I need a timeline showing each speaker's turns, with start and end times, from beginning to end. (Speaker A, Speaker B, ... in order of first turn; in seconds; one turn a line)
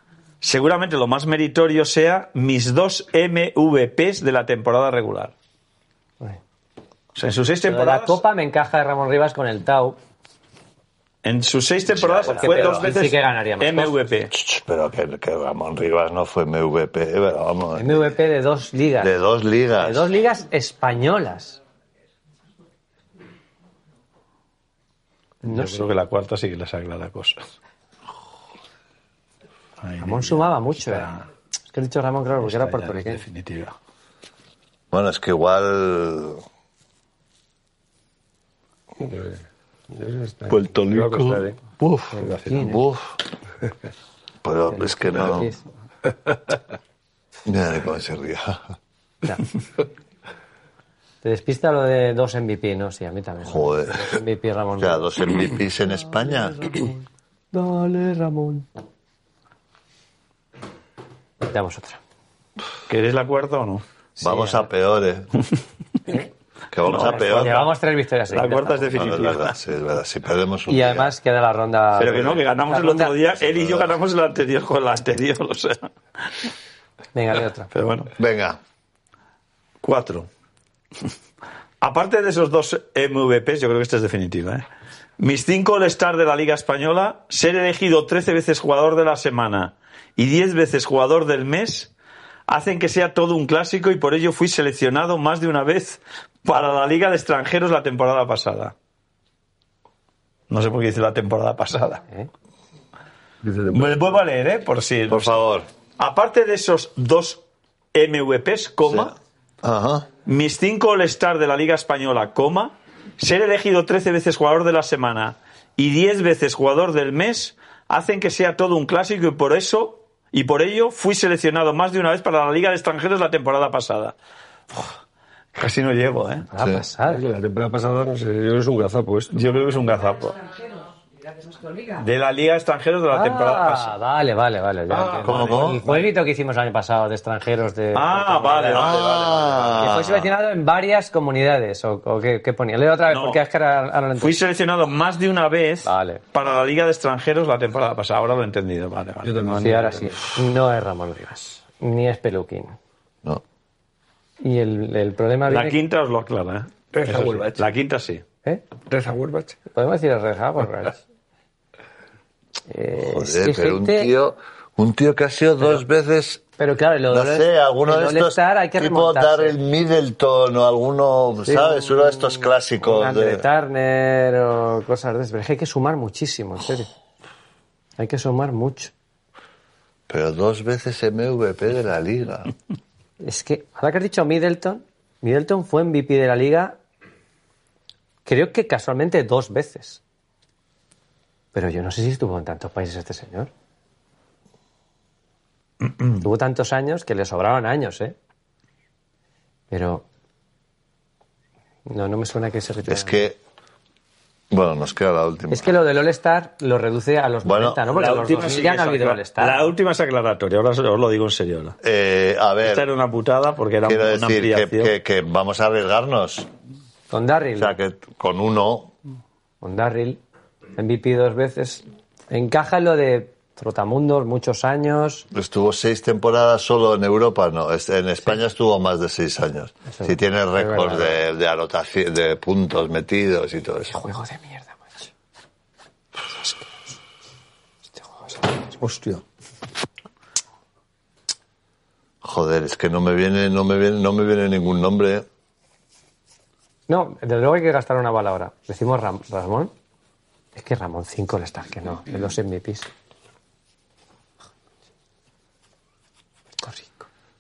Speaker A: 0.4-5.3
Speaker A: 7.1-8.2
Speaker B: 7.6-10.0
Speaker A: 11.2-14.3
Speaker C: 11.9-12.8
Speaker B: 12.2-14.0
Speaker C: 14.3-18.1
Speaker B: 17.7-19.1
Speaker C: 19.0-20.1
Speaker B: 19.8-21.6
Speaker B: 25.4-25.9
Speaker A: 25.4-27.4
Speaker A: 29.8-31.2
Speaker B: 30.0-31.1
Speaker B: 31.7-33.2
Speaker A: 32.4-33.7
Speaker C: 34.9-36.4
Speaker D: 39.0-39.4
Speaker D: 39.9-41.6
Speaker C: 40.5-43.2
Speaker B: 42.1-42.8
Speaker C: 44.4-45.5
Speaker B: 44.7-45.6
Speaker C: 47.4-48.6
Speaker B: 51.2-55.1
Speaker C: 53.4-54.1
Speaker C: 54.8-56.6
Speaker B: 56.1-57.0
Speaker B: 57.5-58.7
Speaker B: 61.4-62.0
Speaker A: 62.9-63.8
Speaker B: 64.2-64.7
Speaker C: 64.2-65.3
Speaker C: 66.7-67.7
Speaker A: 66.8-67.7
Speaker B: 66.9-69.1
Speaker A: 68.3-69.5
Speaker C: 68.9-71.1
Speaker B: 70.7-73.2
Speaker A: 72.0-75.9
Speaker C: 73.5-73.9
Speaker B: 77.1-77.7
Speaker A: 77.7-78.1
Speaker C: 78.2-78.6
Speaker A: 79.8-80.3
Speaker A: 81.8-84.6
Speaker A: 85.2-91.9
Speaker A: 92.5-98.7
Speaker A: 100.5-102.0
Speaker D: 103.4-104.0
Speaker A: 103.7-105.4
Speaker C: 105.1-105.7
Speaker A: 106.0-107.4
Speaker A: 107.9-109.1
Speaker C: 108.8-110.1
Speaker A: 110.2-124.1
Speaker A: 125.5-126.5
Speaker B: 126.5-127.2
Speaker C: 126.6-126.8
Speaker D: 127.1-129.3
Speaker A: 129.3-130.4
Speaker A: 131.9-133.9
Speaker B: 133.1-139.0
Speaker D: 134.9-136.0
Speaker C: 135.2-135.8
Speaker A: 137.9-140.0
Speaker C: 138.7-140.3
Speaker B: 139.8-144.4
Speaker A: 143.1-143.4
Speaker A: 144.2-150.0
Speaker B: 145.8-146.2
Speaker D: 149.2-150.2
Speaker B: 149.6-152.7
Speaker B: 154.4-155.8
Speaker A: 155.5-158.2
Speaker D: 156.9-157.6
Speaker D: 158.9-159.6
Speaker B: 159.7-161.0
Speaker B: 162.7-164.1
Speaker C: 163.0-166.4
Speaker B: 166.6-169.6
Speaker C: 167.1-173.4
Speaker B: 171.4-176.9
Speaker B: 178.0-178.9
Speaker C: 180.1-182.5
Speaker B: 183.2-186.8
Speaker B: 188.2-190.0
Speaker B: 191.5-193.5
Speaker B: 196.1-198.2
Speaker B: 199.7-200.1
Speaker B: 201.8-203.3
Speaker C: 202.9-203.4
Speaker C: 204.5-205.7
Speaker B: 205.5-209.7
Speaker C: 207.4-207.8
Speaker A: 207.9-211.8
Speaker C: 211.8-212.8
Speaker A: 212.6-214.9
Speaker C: 213.8-216.5
Speaker B: 217.1-217.8
Speaker C: 217.6-218.9
Speaker B: 219.6-220.2
Speaker B: 220.8-225.3
Speaker C: 225.3-234.0
Speaker B: 229.9-231.2
Speaker B: 233.9-235.1
Speaker B: 236.3-236.8
Speaker B: 238.0-238.6
Speaker A: 238.8-239.2
Speaker C: 242.2-245.2
Speaker B: 246.9-249.7
Speaker B: 250.5-252.9
Speaker B: 256.6-257.1